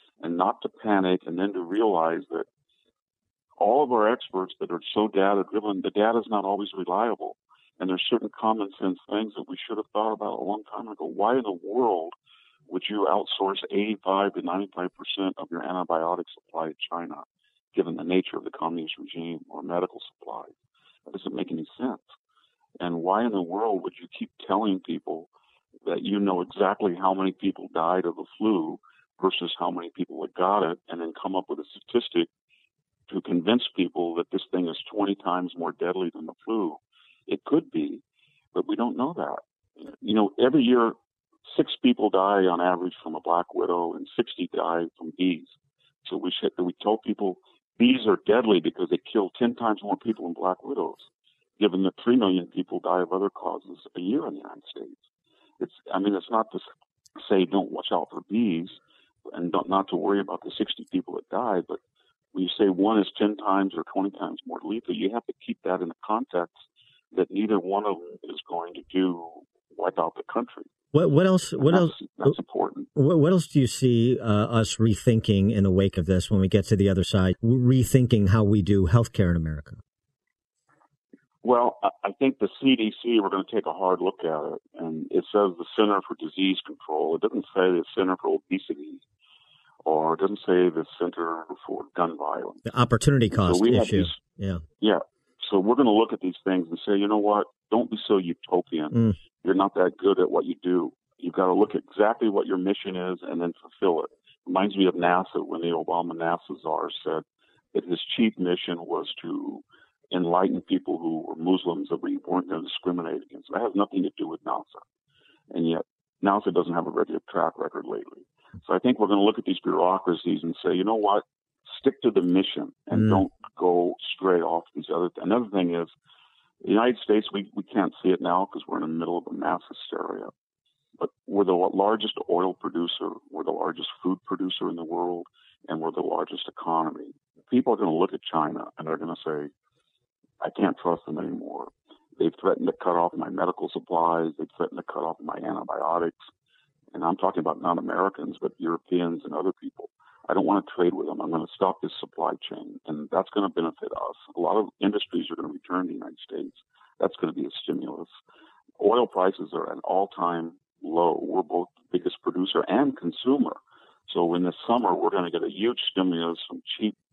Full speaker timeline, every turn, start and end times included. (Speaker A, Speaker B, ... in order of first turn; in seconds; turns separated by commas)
Speaker A: 0.2-2.5, Speaker A: 3.6-12.1, Speaker A: 12.7-20.5, Speaker A: 21.1-22.1, Speaker A: 22.8-25.3, Speaker A: 25.9-32.3, Speaker A: 33.1-38.0, Speaker A: 38.5-41.0, Speaker A: 41.5-45.5, Speaker A: 46.0-51.1, Speaker A: 51.6-55.0, Speaker A: 55.6-56.6, Speaker A: 57.2-58.8, Speaker A: 59.3-61.8, Speaker A: 62.3-66.6, Speaker A: 67.1-70.7, Speaker B: 70.9-72.3, Speaker A: 71.6-72.9, Speaker B: 73.0-79.8, Speaker A: 81.4-89.0, Speaker A: 89.8-92.7, Speaker B: 92.7-94.6, Speaker A: 93.3-94.2, Speaker A: 94.8-114.8, Speaker B: 98.9-99.2, Speaker A: 115.5-125.9, Speaker B: 122.9-123.2, Speaker A: 126.6-130.3, Speaker A: 131.0-139.5, Speaker A: 140.4-146.2, Speaker A: 146.9-158.1, Speaker A: 158.8-167.0